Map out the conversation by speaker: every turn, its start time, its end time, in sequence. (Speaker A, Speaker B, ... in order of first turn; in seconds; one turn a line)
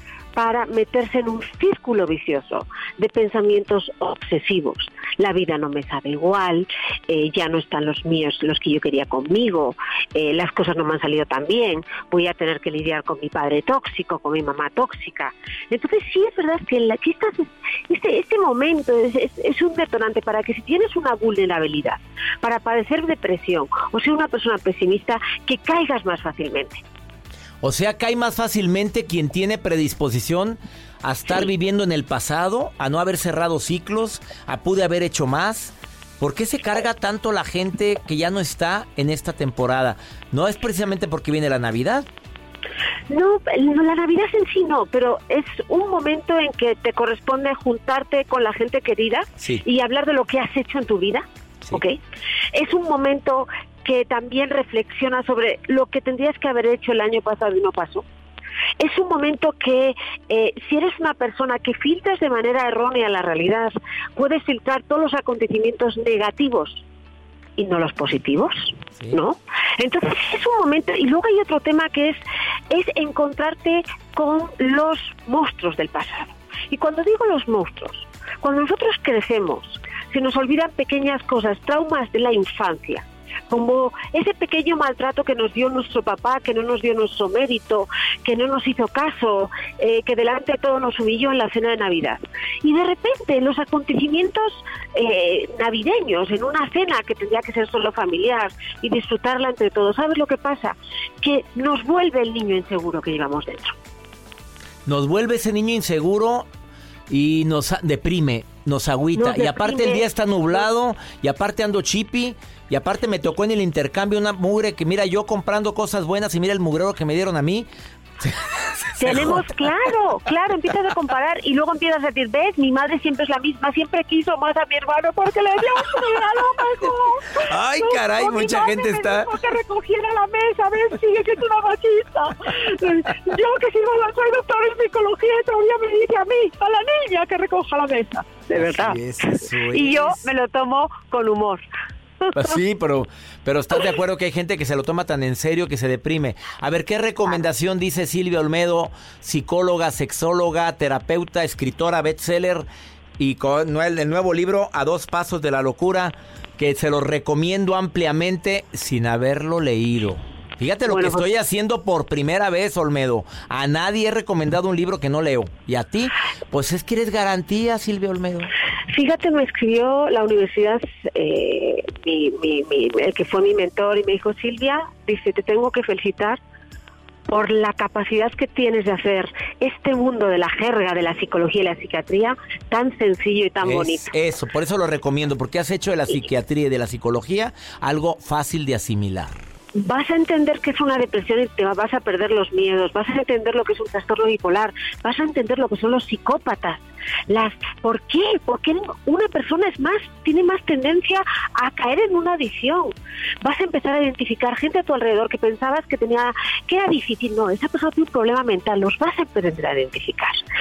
Speaker A: 0.3-26.8
Speaker B: 27.6-42.1
Speaker A: 43.1-52.0
Speaker A: 52.5-58.0
Speaker A: 58.8-66.8
Speaker A: 67.6-72.2
Speaker A: 72.7-103.7
Speaker B: 104.8-106.5
Speaker B: 107.1-117.7
Speaker A: 109.1-110.7
Speaker B: 118.2-119.7
Speaker A: 119.0-141.6
Speaker B: 127.4-129.6
Speaker B: 138.5-140.3
Speaker A: 142.2-142.6
Speaker B: 142.3-152.7
Speaker B: 153.2-168.5
Speaker A: 160.8-161.3
Speaker A: 168.9-176.4
Speaker A: 177.3-184.1
Speaker B: 183.6-189.4
Speaker A: 189.8-210.4